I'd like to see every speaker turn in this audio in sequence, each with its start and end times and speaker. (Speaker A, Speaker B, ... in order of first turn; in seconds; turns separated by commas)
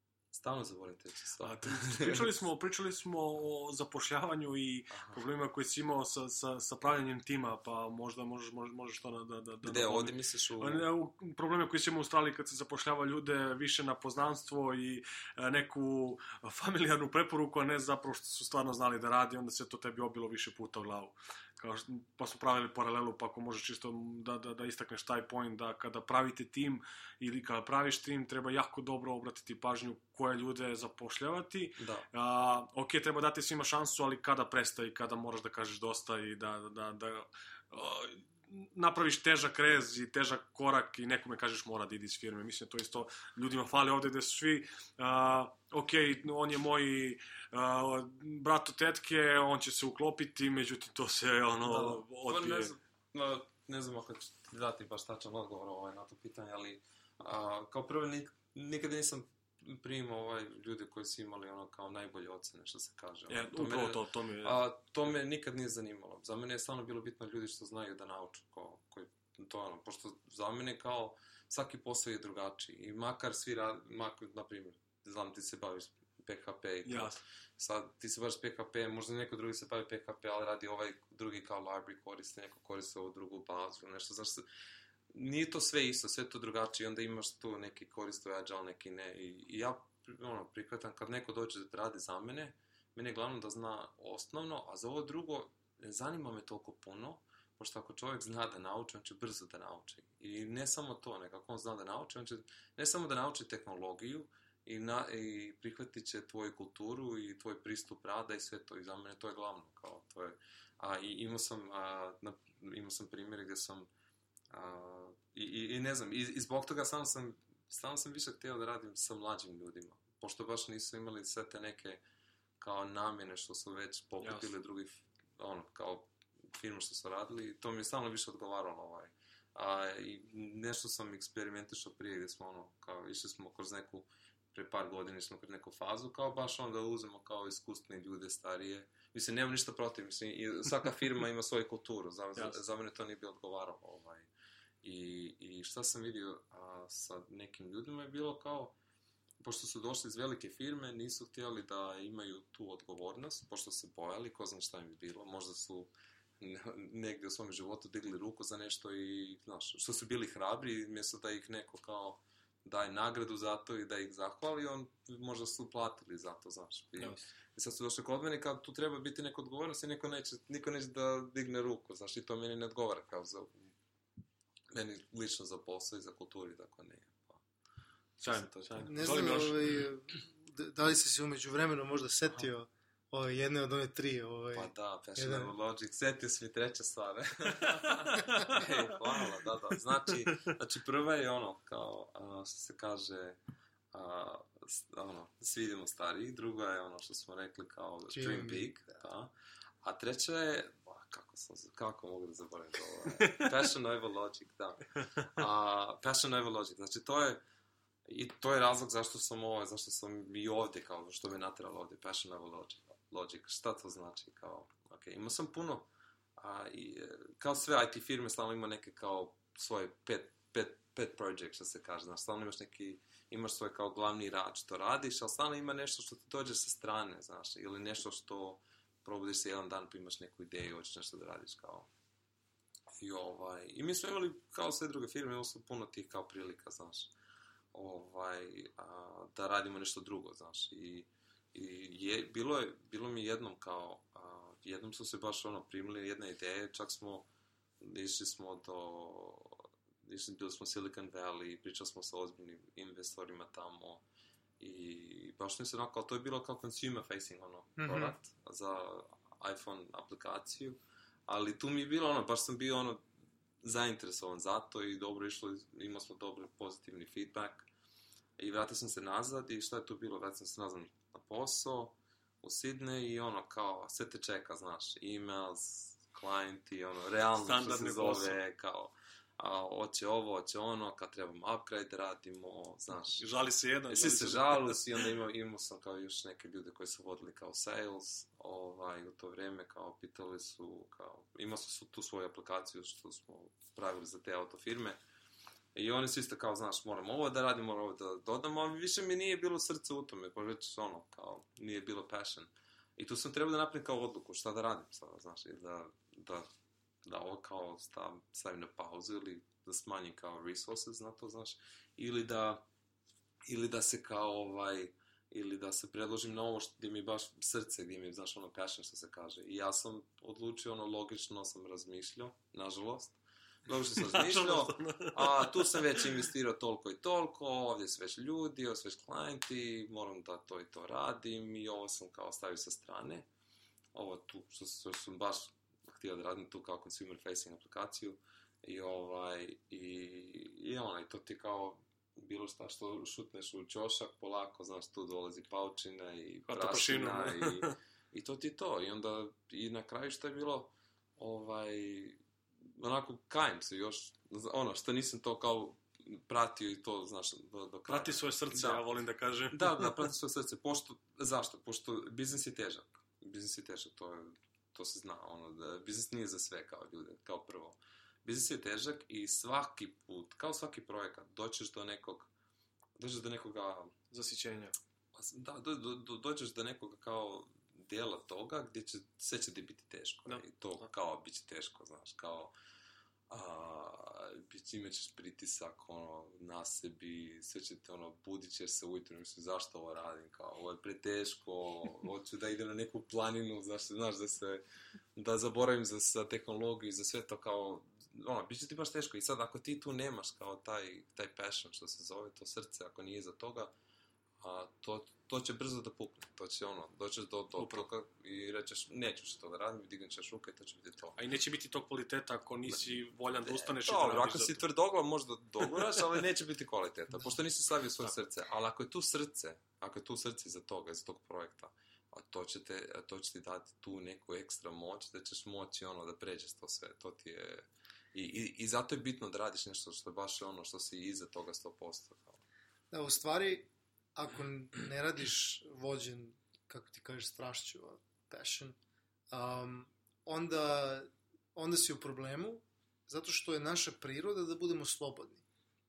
Speaker A: 0.3-2.3, Speaker B: 1.4-52.7, Speaker A: 4.9-5.2, Speaker A: 9.6-10.8, Speaker A: 31.8-32.1, Speaker A: 51.6-84.5, Speaker B: 63.3-64.6, Speaker B: 76.9-77.2, Speaker A: 85.1-113.9, Speaker A: 114.5-122.0, Speaker A: 122.6-144.3, Speaker A: 144.8-148.8, Speaker A: 149.4-173.6, Speaker A: 174.7-177.4, Speaker B: 178.2-179.8, Speaker A: 178.2-178.8, Speaker C: 178.8-185.5, Speaker A: 184.5-193.4, Speaker A: 193.9-207.4, Speaker C: 198.1-198.7, Speaker A: 208.1-231.9, Speaker A: 233.0-237.1, Speaker A: 237.7-247.3, Speaker A: 247.8-254.0, Speaker A: 254.6-263.0, Speaker C: 257.8-258.2, Speaker A: 263.6-267.7, Speaker A: 268.4-283.2, Speaker B: 277.4-278.4, Speaker B: 283.2-284.8, Speaker A: 283.9-295.0, Speaker A: 295.8-306.5, Speaker A: 307.1-312.7, Speaker A: 313.4-333.3, Speaker B: 324.0-325.8, Speaker A: 333.9-352.2, Speaker B: 346.5-347.7, Speaker A: 352.8-358.8, Speaker B: 357.9-360.0, Speaker A: 359.5-372.3, Speaker A: 373.0-373.9, Speaker B: 374.1-374.8, Speaker A: 375.1-382.5, Speaker A: 383.3-394.6, Speaker A: 395.1-403.7, Speaker A: 404.4-411.2, Speaker B: 407.6-407.9, Speaker B: 411.2-414.6, Speaker A: 412.7-432.4, Speaker C: 432.9-438.8, Speaker C: 439.3-445.4